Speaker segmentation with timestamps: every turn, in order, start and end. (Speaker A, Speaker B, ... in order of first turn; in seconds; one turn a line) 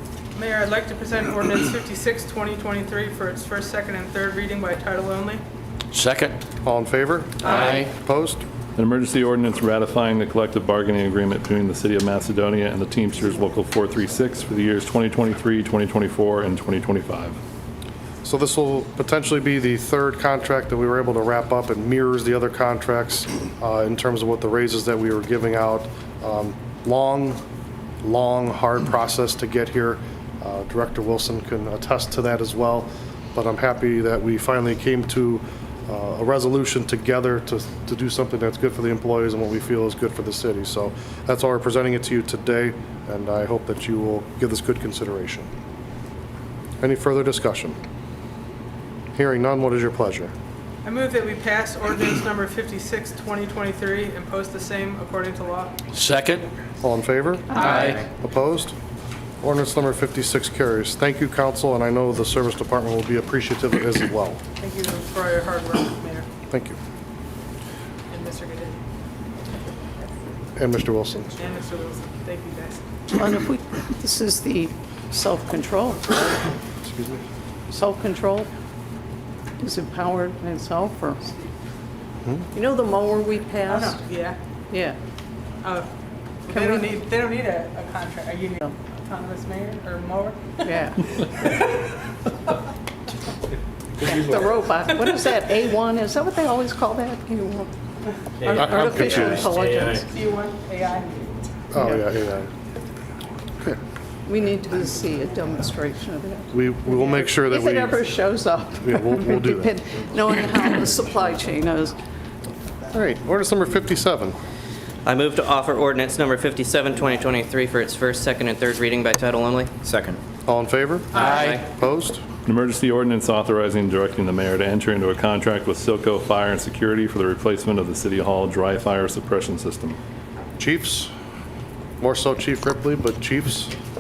Speaker A: 0.3-5.4
Speaker B: 5.9-6.4
Speaker C: 6.6-8.4
Speaker B: 7.5-7.9
Speaker A: 7.5-7.8
Speaker D: 8.8-17.4
Speaker C: 18.2-27.4
Speaker C: 28.0-45.5
Speaker C: 46.8-47.8
Speaker C: 49.1-50.3
Speaker A: 50.8-55.8
Speaker B: 55.9-56.5
Speaker C: 56.8-58.8
Speaker A: 57.5-58.0
Speaker B: 57.7-58.0
Speaker C: 59.4-64.4
Speaker A: 64.6-66.3
Speaker C: 66.5-66.8
Speaker A: 68.1-68.8
Speaker C: 70.6-71.3
Speaker A: 71.4-72.8
Speaker E: 73.1-76.5
Speaker C: 76.8-77.2
Speaker E: 77.7-78.5
Speaker E: 79.6-81.3
Speaker E: 82.5-84.0
Speaker A: 83.7-84.4
Speaker E: 84.7-85.0
Speaker A: 85.6-85.9
Speaker A: 86.5-92.0
Speaker E: 86.5-87.0
Speaker E: 90.7-91.1
Speaker E: 94.0-97.7
Speaker E: 98.4-100.2
Speaker C: 98.6-99.5
Speaker A: 100.1-101.4
Speaker C: 101.7-102.5
Speaker E: 101.8-102.0
Speaker E: 104.3-112.0
Speaker C: 106.5-108.1
Speaker C: 108.8-109.8
Speaker C: 112.9-114.3
Speaker F: 115.0-119.8
Speaker C: 120.5-122.2
Speaker B: 121.2-121.6
Speaker F: 121.2-121.6
Speaker D: 122.5-130.0
Speaker C: 130.6-131.1
Speaker C: 132.0-133.7